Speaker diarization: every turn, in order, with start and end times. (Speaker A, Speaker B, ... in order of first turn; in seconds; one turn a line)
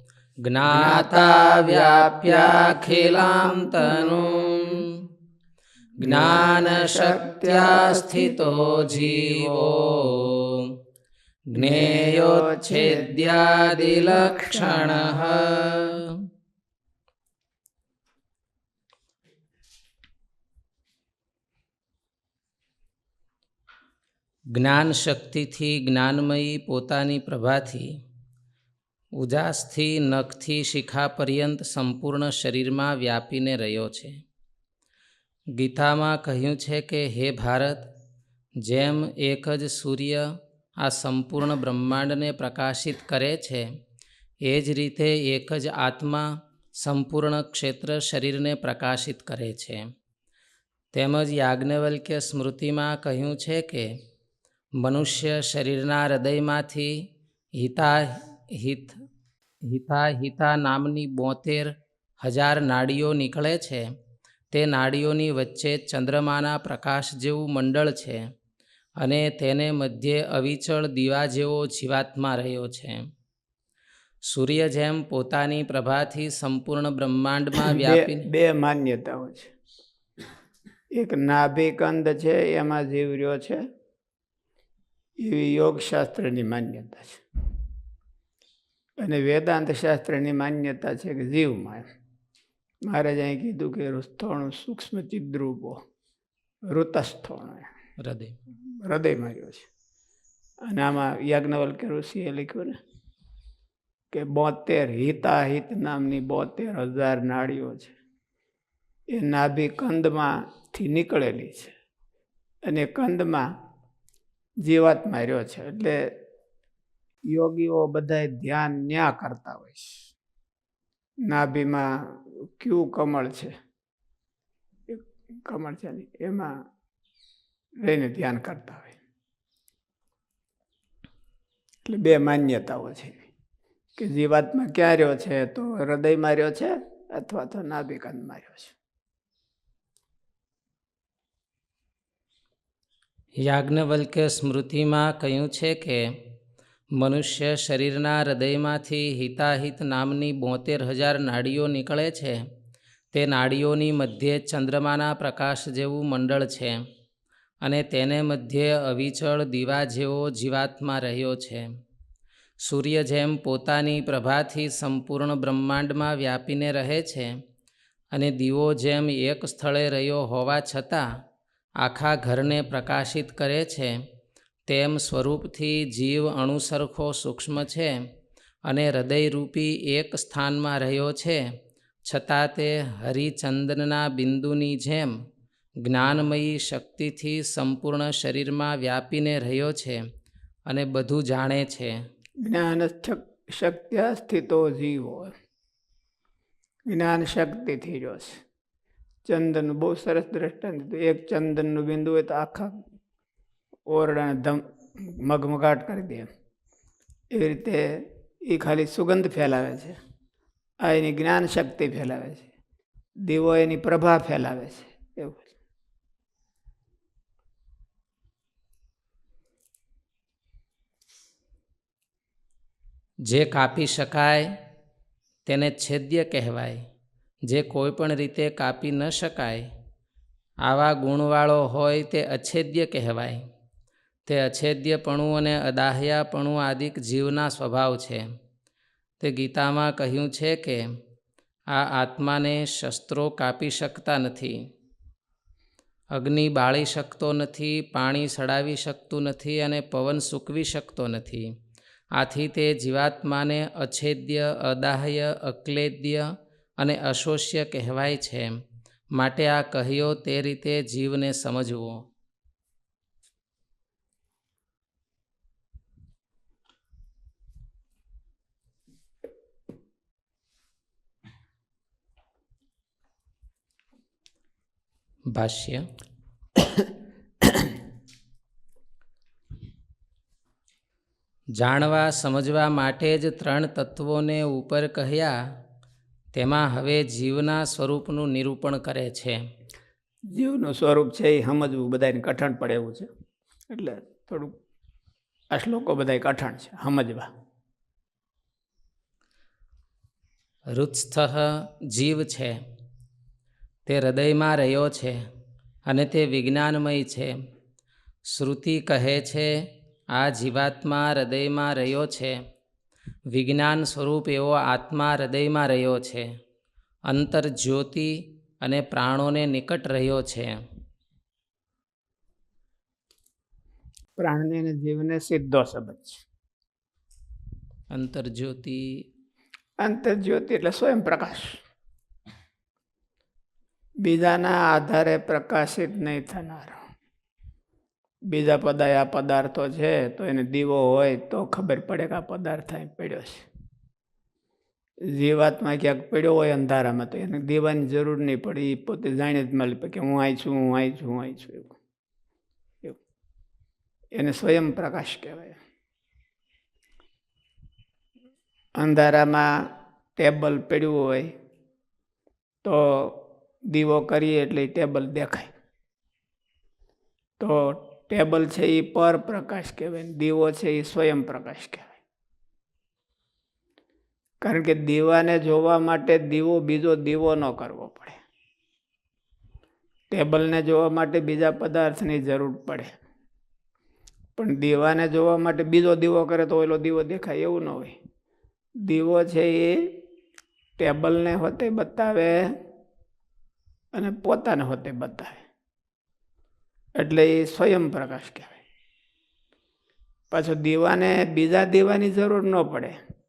Speaker A: 0.5-5.1
Speaker B: 0.7-4.2
Speaker B: 6.0-8.4
Speaker A: 6.0-10.7
Speaker A: 11.5-16.2
Speaker B: 11.6-15.0
Speaker A: 24.6-27.9
Speaker A: 29.2-34.2
Speaker A: 35.6-37.9
Speaker A: 38.6-40.2
Speaker A: 40.8-43.6
Speaker A: 44.4-46.3
Speaker A: 46.8-49.8
Speaker A: 50.9-53.9
Speaker A: 54.8-57.0
Speaker A: 57.6-59.0
Speaker A: 59.7-63.9
Speaker A: 64.5-68.2
Speaker A: 69.0-73.0
Speaker A: 74.3-78.2
Speaker B: 77.6-79.5
Speaker B: 81.0-83.6
Speaker B: 85.2-87.2
Speaker B: 89.0-91.9
Speaker B: 92.9-95.8
Speaker B: 96.7-97.7
Speaker A: 98.0-98.4
Speaker B: 98.8-99.7
Speaker B: 100.7-102.8
Speaker B: 104.1-108.0
Speaker B: 109.1-111.7
Speaker B: 112.7-113.4
Speaker B: 114.6-116.1
Speaker B: 117.3-120.1
Speaker B: 121.3-123.5
Speaker B: 124.9-126.5
Speaker B: 127.8-129.0
Speaker B: 131.8-133.3
Speaker B: 134.0-138.8
Speaker A: 143.4-146.0
Speaker A: 147.0-152.4
Speaker A: 153.1-156.8
Speaker A: 157.6-161.7
Speaker A: 162.7-167.3
Speaker A: 168.1-171.1
Speaker A: 171.8-174.0
Speaker A: 174.7-177.9
Speaker A: 178.7-181.4
Speaker A: 182.1-185.1
Speaker A: 185.8-190.0
Speaker A: 190.7-191.9
Speaker B: 192.4-195.3
Speaker B: 196.9-198.4
Speaker B: 199.3-202.8
Speaker B: 203.9-206.3
Speaker B: 207.3-210.0
Speaker B: 210.8-212.5
Speaker B: 213.3-215.5
Speaker A: 223.3-224.5
Speaker A: 225.5-226.8
Speaker A: 227.5-229.7
Speaker A: 230.7-233.4
Speaker A: 234.3-238.2
Speaker A: 239.2-240.8
Speaker A: 241.7-244.6
Speaker A: 246.1-251.5
Speaker A: 252.2-256.2
Speaker A: 256.8-258.5
Speaker A: 259.2-262.0
Speaker A: 275.3-275.9
Speaker A: 281.6-285.4
Speaker A: 286.3-289.4
Speaker B: 290.3-293.1
Speaker B: 293.7-294.6
Speaker B: 295.5-297.3
Speaker A: 300.7-302.6
Speaker A: 303.9-305.2
Speaker A: 305.9-307.3
Speaker A: 308.3-309.5
Speaker A: 310.1-312.4
Speaker A: 313.3-316.2
Speaker A: 317.1-320.6
Speaker B: 324.2-326.2
Speaker A: 327.9-328.9
Speaker B: 329.8-331.6
Speaker B: 334.0-336.8
Speaker B: 338.3-343.5
Speaker B: 345.1-351.8
Speaker B: 354.1-355.6
Speaker B: 358.8-361.3
Speaker B: 362.6-365.5
Speaker B: 367.4-372.0
Speaker B: 374.4-378.2
Speaker B: 380.1-383.0
Speaker B: 384.4-388.0
Speaker B: 388.8-390.0
Speaker B: 390.8-392.4
Speaker B: 393.9-395.4
Speaker B: 397.0-398.6
Speaker B: 400.3-403.0